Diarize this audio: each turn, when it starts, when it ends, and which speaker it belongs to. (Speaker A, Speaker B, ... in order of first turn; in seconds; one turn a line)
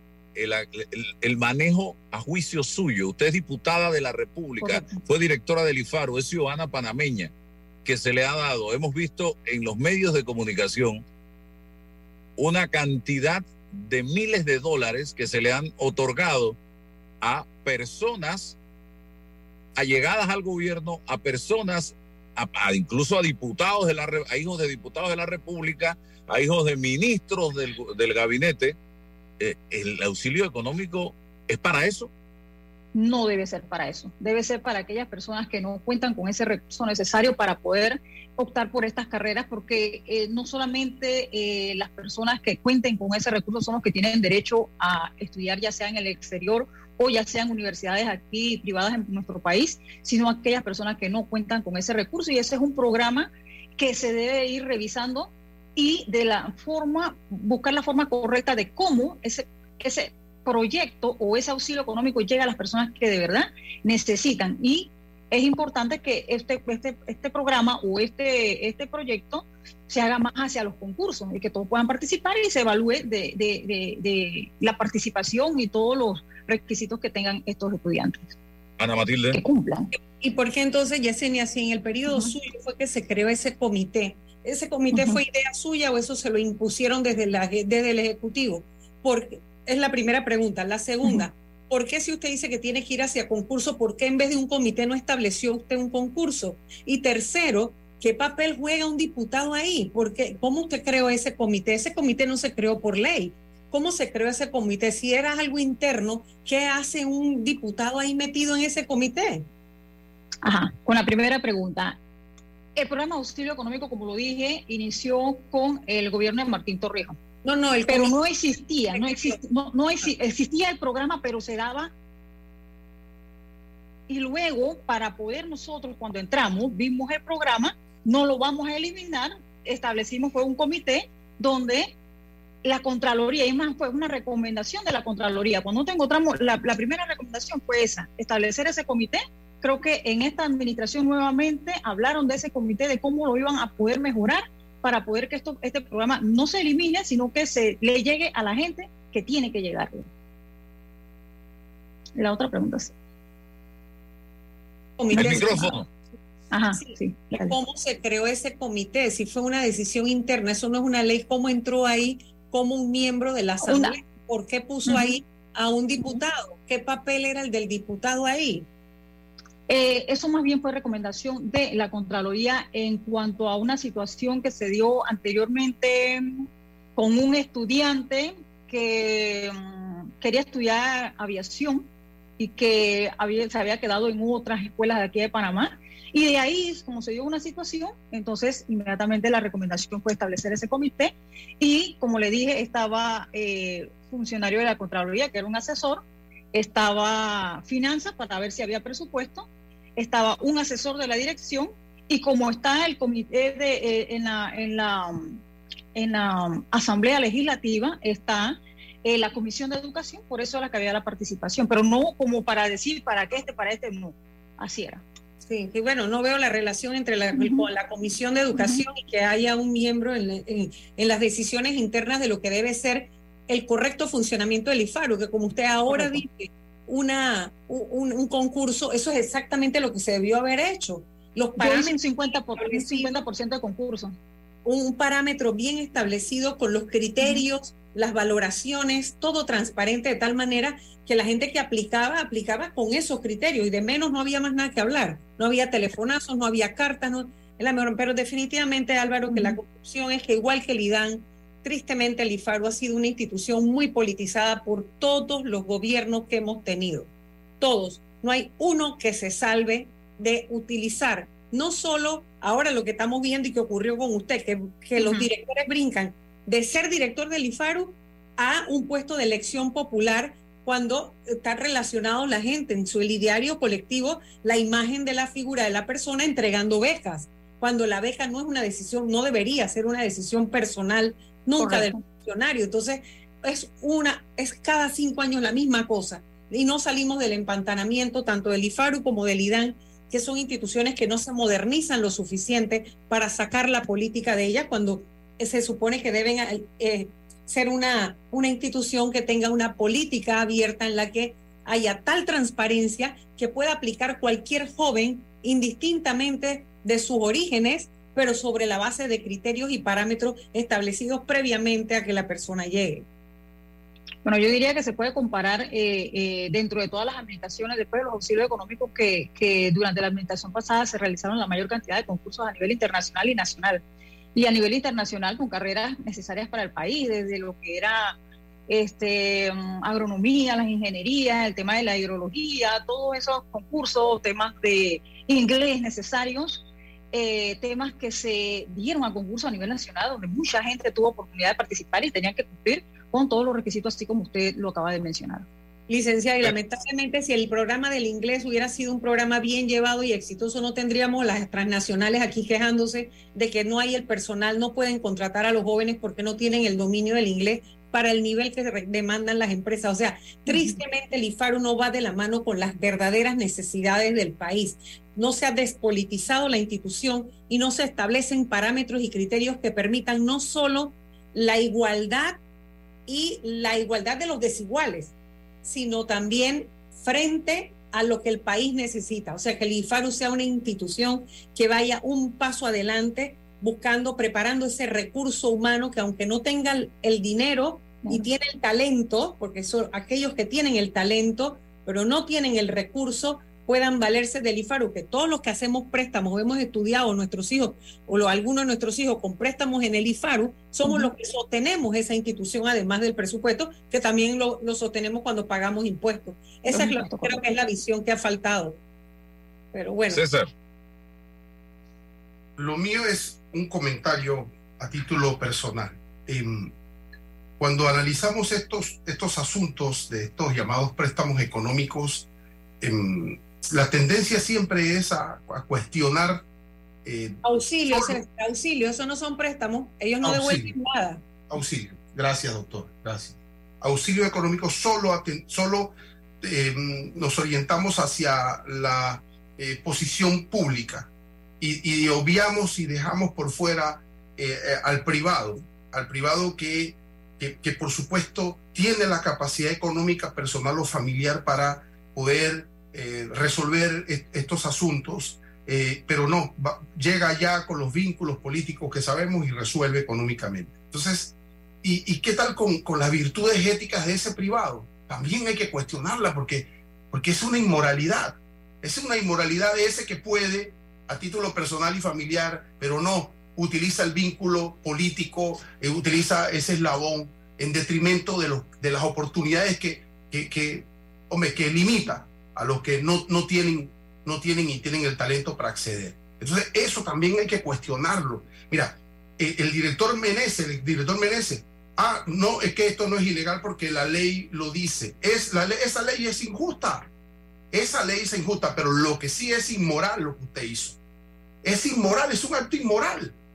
Speaker A: 0.3-7.3
Speaker B: 4.6-5.0
Speaker A: 7.8-11.0
Speaker A: 12.4-16.6
Speaker A: 17.2-18.6
Speaker A: 19.8-28.8
Speaker A: 29.4-32.1
Speaker B: 32.9-78.3
Speaker A: 78.8-79.4
Speaker B: 79.3-79.9
Speaker C: 80.2-109.5
Speaker B: 84.9-85.2
Speaker B: 110.4-112.0
Speaker B: 112.8-117.2
Speaker C: 117.4-118.2
Speaker B: 117.9-121.9
Speaker C: 118.9-119.4
Speaker B: 124.1-131.9
Speaker B: 132.6-150.1
Speaker B: 152.2-152.9
Speaker C: 155.0-155.8
Speaker B: 155.1-155.7
Speaker A: 155.2-155.9
Speaker B: 156.5-157.6
Speaker C: 156.7-168.7
Speaker B: 163.6-164.0
Speaker B: 164.9-165.2
Speaker B: 169.7-205.4
Speaker B: 205.9-215.0
Speaker C: 215.4-233.2
Speaker B: 217.3-217.7
Speaker B: 218.6-218.8
Speaker B: 225.9-226.2
Speaker B: 231.6-234.2
Speaker C: 234.7-257.1
Speaker B: 249.3-249.6
Speaker C: 257.6-313.1
Speaker B: 265.0-265.3
Speaker B: 281.6-282.0
Speaker B: 314.2-323.8
Speaker B: 324.4-328.2
Speaker B: 328.7-345.5
Speaker C: 345.9-372.4
Speaker B: 360.5-360.8
Speaker C: 373.1-375.1
Speaker C: 375.6-408.8
Speaker B: 400.9-401.1
Speaker B: 406.7-407.4
Speaker C: 409.7-410.2
Speaker A: 410.1-410.5
Speaker D: 412.6-416.7
Speaker D: 417.6-422.3
Speaker D: 422.8-426.4
Speaker D: 427.1-428.2
Speaker C: 427.4-431.2
Speaker D: 430.2-430.7
Speaker D: 431.5-441.1
Speaker D: 441.6-497.1
Speaker D: 497.7-501.0
Speaker D: 501.6-503.4